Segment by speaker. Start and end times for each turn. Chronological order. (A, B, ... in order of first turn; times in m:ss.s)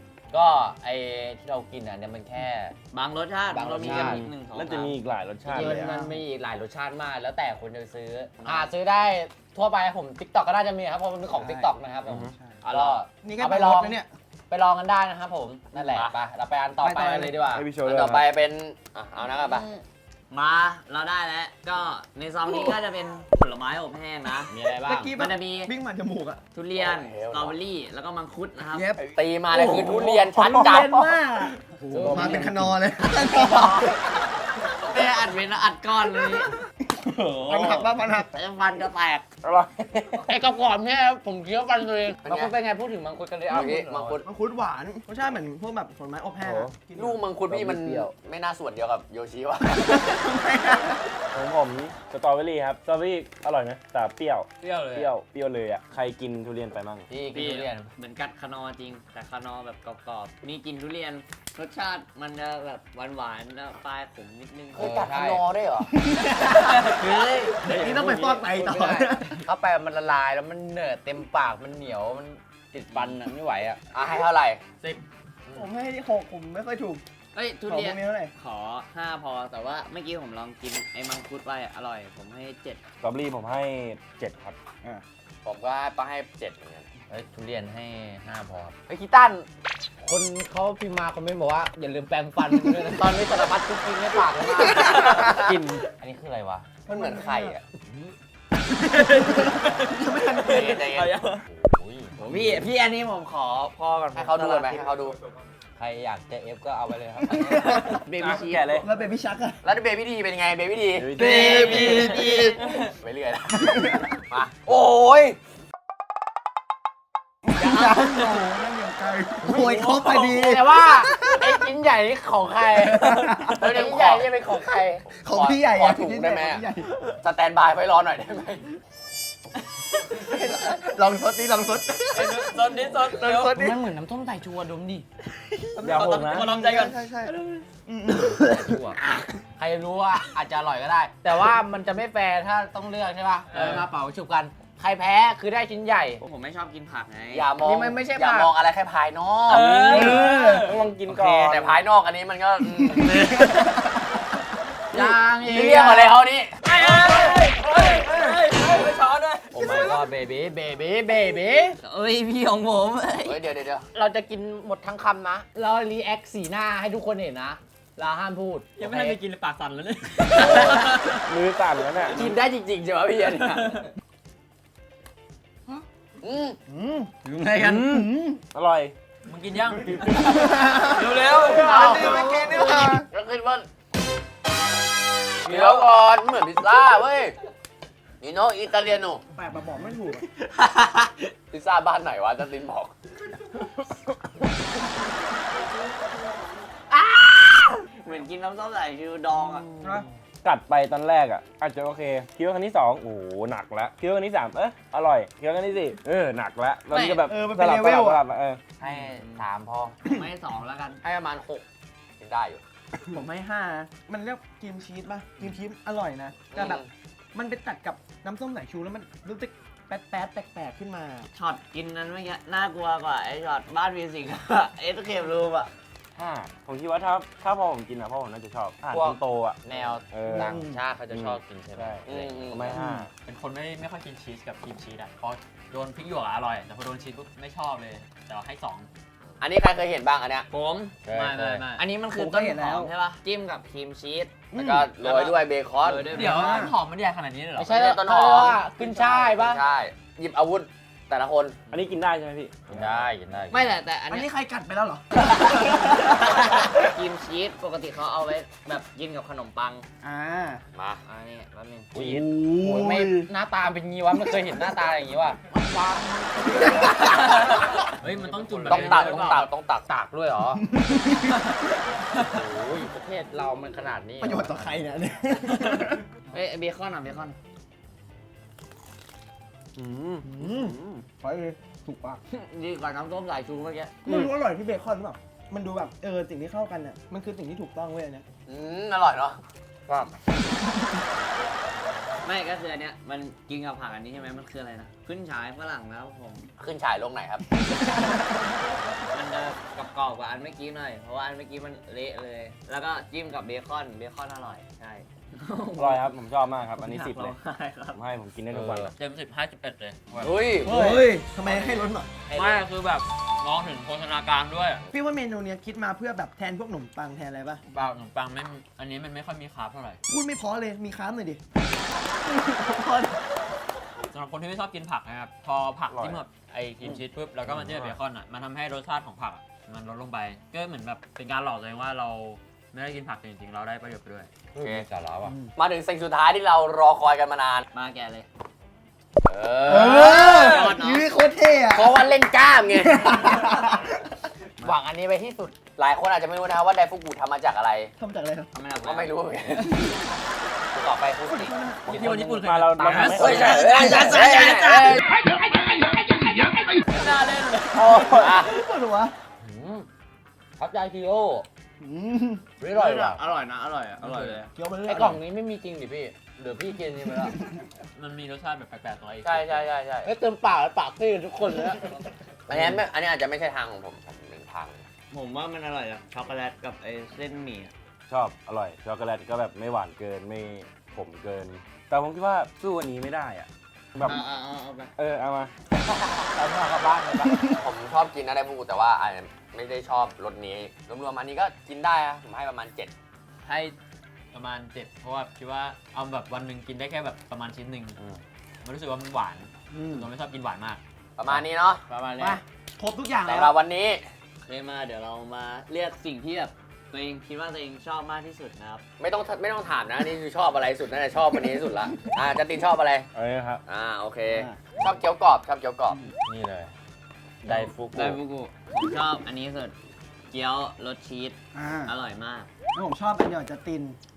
0:00.3-0:02.7 A
0:02.9-0:05.0 B
0:03.5-0:04.3 A
0:03.8-0:05.9 C
0:05.4-0:17.7 A
0:05.5-0:06.3 D
0:08.4-0:08.7 B
0:11.3-0:11.7 D
0:12.0-0:12.3 C
0:12.3-0:12.6 D
0:12.6-0:13.0 B
0:13.2-0:14.1 D
0:15.7-0:16.2 E
0:16.8-0:17.4 D
0:17.5-0:18.3 C
0:17.7-0:19.7 E
0:19.4-0:24.5 B
0:24.5-0:25.1 A
0:24.7-0:25.1 E
0:24.8-0:26.4 D
0:25.2-0:25.7 B
0:26.5-0:29.0 B
0:26.7-0:27.6 E
0:28.7-0:34.1 D
0:29.0-0:31.0 E
0:30.4-0:30.9 C
0:31.9-0:32.5 B
0:31.9-0:32.7 C
0:33.2-0:33.9 B
0:34.7-0:39.2 B
0:37.0-0:38.3 D
0:39.4-0:40.2 C
0:40.2-0:44.2 A
0:42.2-0:42.6 E
0:43.5-0:44.2 E
0:44.2-0:47.2 D
0:46.4-0:46.9 C
0:46.9-0:50.2 E
0:47.5-0:48.1 C
0:49.7-0:51.0 D
0:51.3-0:57.1 C
0:54.6-0:55.1 F
0:57.1-0:57.8 E
0:57.1-0:57.8 A
0:57.3-1:05.0 B
1:04.7-1:05.9 E
1:04.8-1:05.4 A
1:05.9-1:07.1 D
1:06.4-1:06.9 F
1:06.9-1:07.7 B
1:07.6-1:09.4 D
1:08.2-1:13.8 A
1:08.6-1:09.1 B
1:13.9-1:14.6 E
1:15.5-1:17.0 D
1:17.3-1:22.8 B
1:17.7-1:18.3 D
1:23.0-1:24.6 C
1:25.4-1:26.9 E
1:27.1-1:29.5 A
1:30.0-1:36.7 A
1:34.7-1:35.4 F
1:34.8-1:35.2 D
1:36.9-1:37.6 D
1:36.9-1:37.6 E
1:38.7-1:40.8 D
1:38.8-1:41.4 F
1:40.4-1:41.2 E
1:41.4-1:42.2 A
1:42.2-1:44.8 B
1:44.1-1:45.2 E
1:45.8-1:47.9 A
1:47.2-1:48.0 D
1:47.6-1:48.8 B
1:48.1-1:48.9 C
1:48.8-1:49.6 D
1:49.6-1:55.4 E
1:51.0-1:52.1 C
1:51.2-1:52.6 B
1:51.5-1:52.2 D
1:53.5-1:54.1 D
1:57.4-2:01.7 D
1:57.9-1:58.4 F
1:59.4-2:05.0 A
2:02.7-2:03.6 D
2:03.5-2:04.4 E
2:05.0-2:06.6 E
2:05.2-2:07.0 D
2:07.2-2:08.7 E
2:10.1-2:12.7 D
2:12.1-2:13.6 F
2:13.1-2:15.0 A
2:15.7-2:17.3 D
2:15.8-2:16.5 C
2:15.9-2:17.6 F
2:17.8-2:18.9 D
2:18.4-2:19.0 A
2:19.6-2:26.2 A
2:23.5-2:23.8 F
2:26.2-2:27.5 B
2:27.3-2:29.6 E
2:27.6-2:28.5 A
2:29.4-2:29.8 A
2:29.5-2:30.6 F
2:29.5-2:31.8 C
2:29.8-2:30.7 D
2:31.1-2:33.5 E
2:32.7-2:33.9 D
2:34.9-2:36.2 A
2:34.9-2:36.6 E
2:36.6-2:39.9 F
2:36.9-2:37.3 A
2:37.9-2:38.3 D
2:39.5-2:41.8 A
2:41.8-2:43.4 B
2:43.2-2:43.9 E
2:43.9-2:49.2 A
2:48.8-2:51.3 F
2:50.4-2:52.2 C
2:52.1-2:53.8 E
2:53.4-2:53.9 F
2:56.2-2:56.6 E
2:56.7-2:57.1 D
2:57.2-2:58.0 B
2:57.6-2:59.0 C
2:57.7-2:58.4 D
2:59.2-3:02.3 F
2:59.7-3:03.1 D
3:01.4-3:02.9 A
3:02.8-3:03.6 E
3:05.4-3:07.4 E
3:08.2-3:09.2 E
3:09.3-3:10.2 D
3:10.5-3:11.2 B
3:11.5-3:12.9 E
3:16.9-3:19.7 B
3:19.8-3:20.1 D
3:20.4-3:28.6 C
3:27.0-3:28.2 D
3:28.8-3:29.9 A
3:28.8-3:29.3 B
3:29.4-3:29.9 E
3:30.0-3:31.0 B
3:31.0-3:31.6 E
3:32.2-3:32.6 E
3:33.1-3:36.8 D
3:36.5-3:36.9 E
3:37.3-3:41.3 D
3:41.3-3:45.7 B
3:46.1-3:53.1 C
3:48.9-3:52.7 A
3:50.3-3:50.8 D
3:52.0-3:52.7 E
3:52.7-3:53.1 D
3:53.2-3:58.9 F
3:59.4-4:00.5 E
4:00.5-4:00.9 B
4:01.0-4:01.7 E
4:01.1-4:01.8 F
4:01.8-4:04.3 B
4:02.1-4:02.9 D
4:04.5-4:04.9 D
4:04.5-4:06.2 E
4:05.8-4:06.6 B
4:06.1-4:07.8 F
4:06.1-4:06.7 D
4:07.6-4:09.6 A
4:07.7-4:11.6 E
4:08.7-4:09.3 B
4:11.7-4:13.0 C
4:12.7-4:13.7 A
4:13.5-4:14.3 B
4:14.1-4:16.7 D
4:15.7-4:19.8 B
4:20.0-4:20.6 D
4:20.7-4:21.0 E
4:21.0-4:22.2 B
4:21.9-4:22.2 C
4:21.9-4:23.3 D
4:22.6-4:30.6 A
4:24.3-4:24.6 D
4:26.4-4:27.1 D
4:27.1-4:29.4 F
4:28.0-4:29.4 B
4:28.7-4:29.9 E
4:30.5-4:31.6 D
4:32.2-4:34.9 A
4:34.2-4:36.0 D
4:36.3-4:37.4 B
4:40.2-4:42.2 D
4:42.3-4:43.9 B
4:44.0-4:48.2 D
4:48.5-4:49.4 E
4:49.9-4:50.6 D
4:52.2-4:56.5 B
4:56.6-4:57.4 E
4:57.7-4:58.2 D
4:59.1-5:06.1 B
5:05.8-5:07.4 C
5:06.8-5:08.0 B
5:07.9-5:08.9 C
5:08.5-5:08.9 E
5:08.9-5:10.4 F
5:10.2-5:11.1 E
5:10.6-5:12.1 D
5:10.8-5:11.7 B
5:12.3-5:14.8 F
5:14.9-5:17.6 D
5:17.7-5:20.0 F
5:20.1-5:21.4 D
5:22.2-5:23.4 D
5:24.1-5:34.3 F
5:25.9-5:26.2 C
5:27.5-5:27.9 C
5:34.5-5:34.9 E
5:34.5-5:35.4 A
5:35.5-5:37.6 E
5:37.7-5:38.2 B
5:39.2-5:40.7 E
5:39.6-5:42.0 D
5:40.2-5:41.1 B
5:41.7-5:43.4 E
5:42.8-5:44.0 D
5:44.6-5:45.6 A
5:45.8-5:47.9 E
5:48.0-5:48.5 D
5:48.5-5:49.1 B
5:48.7-5:50.0 E
5:50.7-5:51.5 A
5:51.2-5:52.0 D
5:51.8-5:53.7 C
5:51.8-5:54.0 F
5:53.0-5:55.0 E
5:56.5-5:58.0 F
5:57.7-5:59.1 D
5:57.8-5:58.5 E
5:59.4-5:59.9 A
6:00.6-6:01.4 A
6:01.8-6:02.5 D
6:02.6-6:03.2 A
6:02.6-6:04.5 B
6:04.5-6:05.3 D
6:04.8-6:07.4 A
6:07.9-6:09.7 F
6:09.2-6:12.0 A
6:12.5-6:14.8 E
6:15.1-6:17.7 B
6:18.1-6:24.2 C
6:24.0-6:24.9 B
6:25.0-6:25.5 C
6:25.9-6:27.4 A
6:27.3-6:27.6 D
6:27.6-6:32.9 E
6:33.4-6:33.7 F
6:34.3-6:38.0 F
6:38.6-6:40.8 F
6:39.7-6:40.1 D
6:41.2-6:41.8 E
6:41.9-6:42.4 B
6:42.2-6:43.6 D
6:43.2-6:44.1 E
6:44.4-6:48.8 B
6:49.0-6:53.1 E
6:53.1-6:53.6 C
6:53.6-6:56.0 E
6:54.3-6:54.6 D
6:56.2-6:56.7 A
6:57.4-6:58.2 A
6:57.9-6:59.7 B
7:00.3-7:02.5 B
7:01.5-7:01.9 D
7:02.7-7:04.0 D